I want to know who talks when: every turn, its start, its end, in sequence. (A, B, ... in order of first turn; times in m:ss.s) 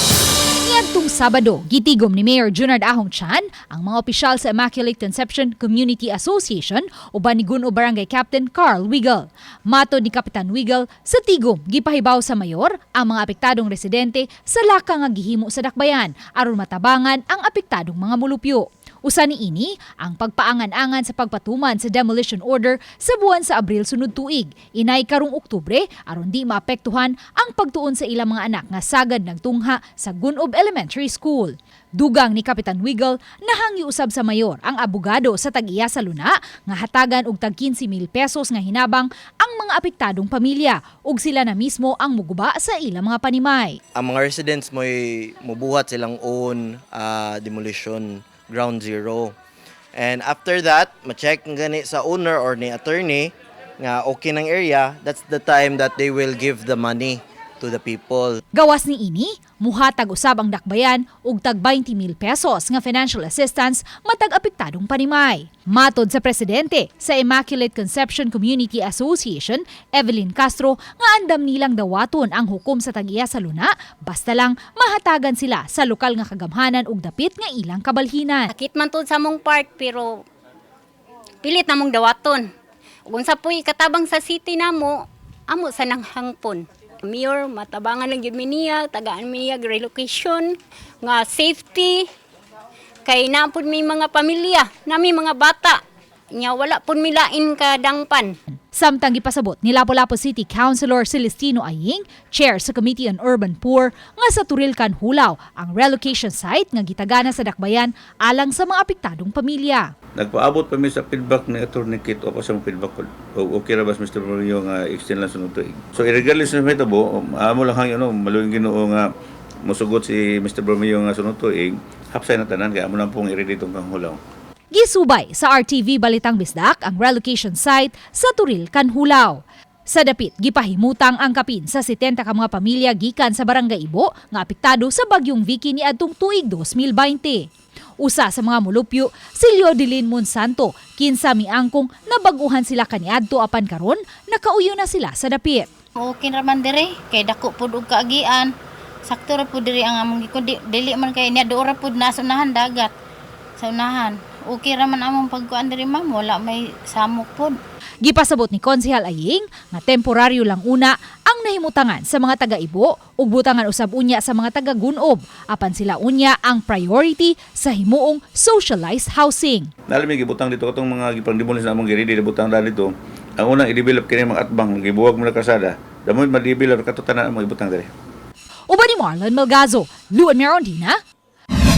0:00.6-0:43.8 A
0:44.0-0:49.4 B
0:50.0-0:58.4 B
0:58.6-1:18.5 A
1:18.5-1:20.2 C
1:21.4-1:22.4 C
1:23.1-1:32.0 C
1:33.0-1:35.8 C
1:36.3-1:38.4 C
1:38.7-1:49.9 A
1:50.2-1:59.1 D
1:59.6-2:04.2 D
2:04.7-2:17.5 A
2:18.0-2:25.7 A
2:26.0-2:28.5 E
2:29.0-2:32.9 E
2:33.6-2:37.6 E
2:38.0-2:49.7 A
2:49.9-2:57.9 D
2:58.7-3:01.0 A